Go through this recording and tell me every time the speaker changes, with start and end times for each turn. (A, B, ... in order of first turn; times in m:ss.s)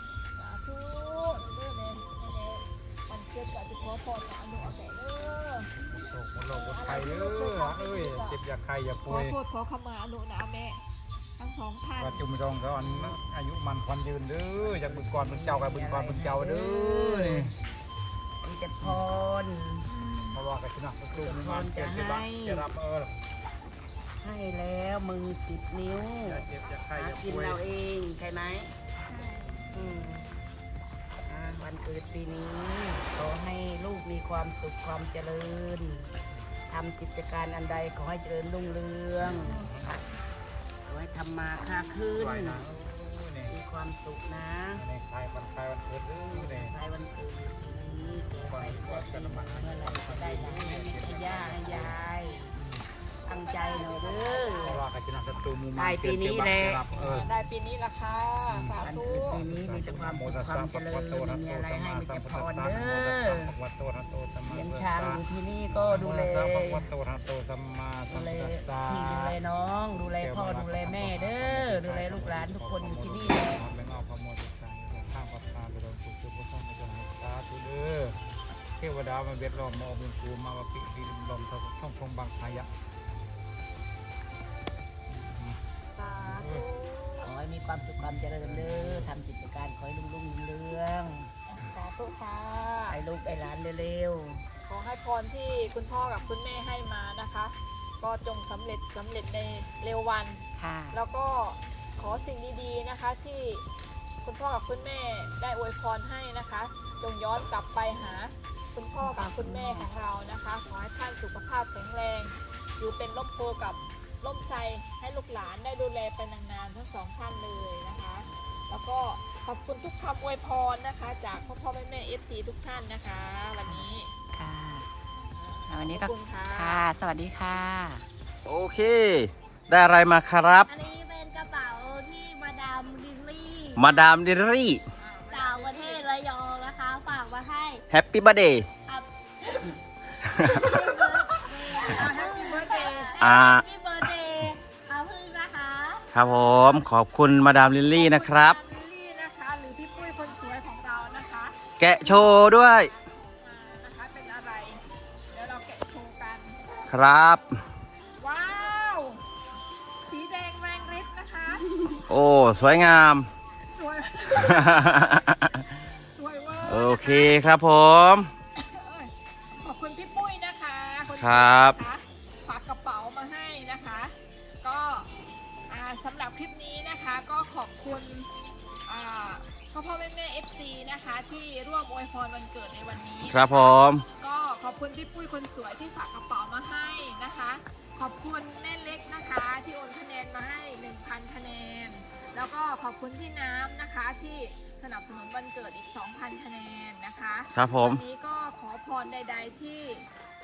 0:00.4-0:05.8 A
0:05.8-0:09.4 B
0:06.5-0:08.4 A
0:09.1-0:10.8 A
0:11.4-0:12.2 A
0:12.0-0:17.6 B
0:14.6-0:17.5 C
0:18.4-0:19.9 C
0:19.9-0:20.4 A
0:20.3-0:23.1 B
0:21.1-0:22.6 C
0:24.2-0:28.7 C
0:26.2-0:27.6 B
0:29.2-0:29.6 D
0:29.5-0:30.1 B
0:29.7-0:30.3 C
0:31.3-0:36.1 C
0:36.7-0:39.6 C
0:39.2-0:40.0 B
0:40.9-0:42.6 C
0:42.1-0:43.6 B
0:43.5-0:44.8 C
0:44.8-0:46.8 B
0:46.3-0:52.6 C
0:48.4-0:52.0 B
0:53.3-0:54.8 C
0:53.4-0:54.8 A
0:54.6-0:57.3 B
0:55.8-0:56.8 C
0:57.0-0:59.4 A
0:58.5-1:09.4 B
0:58.8-1:03.5 C
1:04.5-1:06.9 C
1:08.2-1:13.6 C
1:10.0-1:18.2 B
1:18.8-1:22.7 B
1:25.1-1:25.6 B
1:25.9-1:27.3 A
1:26.2-1:26.6 B
1:27.2-1:31.3 C
1:28.1-1:29.1 B
1:31.5-1:33.0 A
1:32.9-1:34.4 C
1:34.6-1:43.6 A
1:40.6-1:41.0 E
1:44.2-2:04.1 A
1:49.1-1:49.9 E
2:03.6-2:04.9 E
2:05.4-2:06.8 A
2:05.7-2:08.1 E
2:08.4-2:10.7 F
2:10.7-2:14.0 D
2:13.8-2:14.8 F
2:15.0-2:16.1 A
2:15.3-2:17.8 D
2:17.9-2:18.7 F
2:18.9-2:19.8 D
2:20.3-2:26.1 D
2:21.7-2:23.2 A
2:23.2-2:23.6 F
2:26.1-2:28.6 F
2:26.2-2:26.8 A
2:27.8-2:34.8 A
2:31.8-2:32.9 F
2:35.3-2:36.6 A
2:36.9-2:37.5 F
2:38.2-2:39.2 A
2:40.0-2:42.0 A
2:42.1-2:43.3 F
2:43.7-2:45.0 A
2:44.6-2:45.4 F
2:46.1-2:47.5 A
2:46.6-2:48.3 F
2:48.6-2:55.1 A
2:51.1-2:51.8 F
2:55.7-2:58.3 A
2:58.9-3:20.0 A
3:03.3-3:04.0 F
3:17.6-3:18.0 F